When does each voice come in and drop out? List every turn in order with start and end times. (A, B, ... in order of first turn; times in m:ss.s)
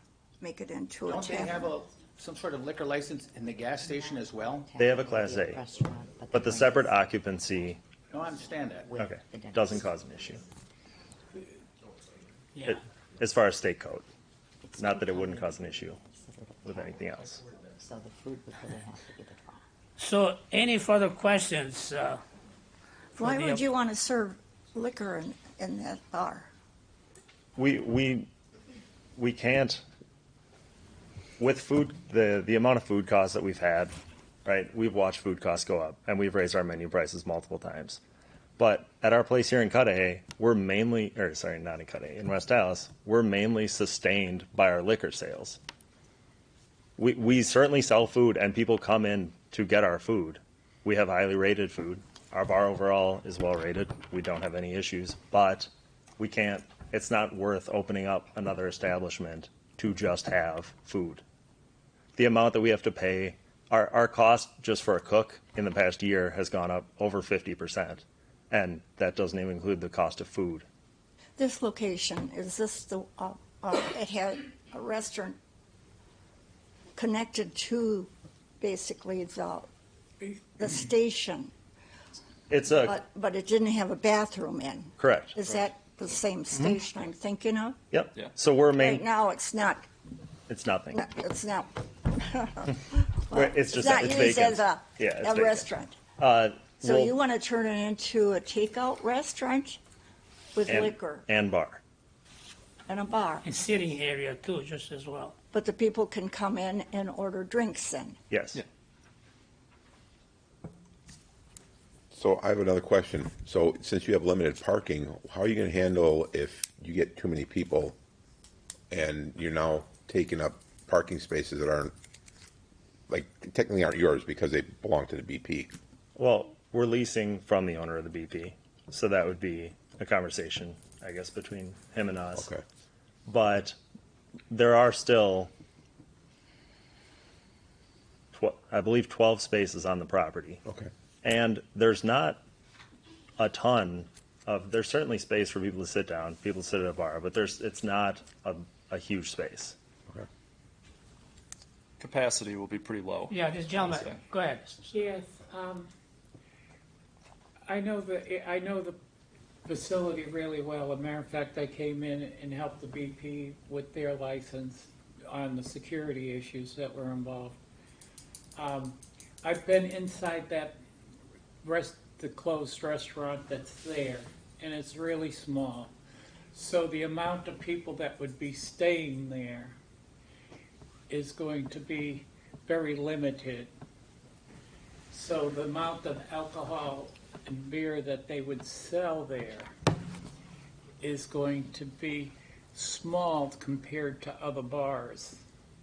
0:00.4-0:01.7 A
0:01.1-0:04.7 B
0:01.2-0:01.5 C
0:03.8-0:07.0 C
0:04.7-0:05.7 D
0:06.3-0:07.8 D
0:08.1-0:08.9 B
0:08.8-0:10.1 C
0:08.9-0:10.4 D
0:12.5-0:12.8 E
0:12.6-0:14.0 D
0:14.6-0:19.6 C
0:14.8-0:16.0 D
0:16.6-0:17.4 D
0:20.0-0:22.2 E
0:23.2-0:23.6 E
0:23.2-0:26.5 A
0:27.6-0:28.3 D
0:29.2-0:29.8 D
0:31.4-0:33.9 D
0:34.4-0:38.0 D
0:38.6-0:45.6 D
0:47.0-1:01.2 D
1:02.2-1:10.6 D
1:11.4-1:15.4 A
1:16.9-1:19.7 A
1:20.6-1:21.5 A
1:22.5-1:23.0 D
1:22.7-1:27.8 A
1:25.0-1:25.4 D
1:26.5-1:26.8 D
1:27.9-1:29.1 D
1:28.8-1:29.9 A
1:30.5-1:31.1 D
1:30.9-1:36.0 A
1:33.3-1:37.2 D
1:36.8-1:39.8 A
1:40.5-1:41.2 A
1:40.6-1:41.8 D
1:42.9-1:43.4 A
1:43.4-1:45.4 E
1:45.5-1:48.2 A
1:48.3-1:48.6 D
1:52.1-1:58.0 F
1:58.9-2:01.9 F
2:03.1-2:05.7 F
2:06.2-2:12.5 D
2:12.3-2:12.6 F
2:13.2-2:13.8 D
2:14.5-2:15.5 D
2:18.3-2:20.6 D
2:21.2-2:22.4 D
2:23.4-2:29.8 D
2:32.0-2:34.2 G
2:33.3-2:34.8 E
2:34.9-2:35.9 H
2:37.6-2:39.0 H
2:39.6-2:47.6 H
2:48.6-2:50.8 H
2:51.6-2:55.9 H
2:56.5-2:59.8 H
3:01.1-3:03.7 H
3:05.1-3:09.7 H
3:11.0-3:15.4 H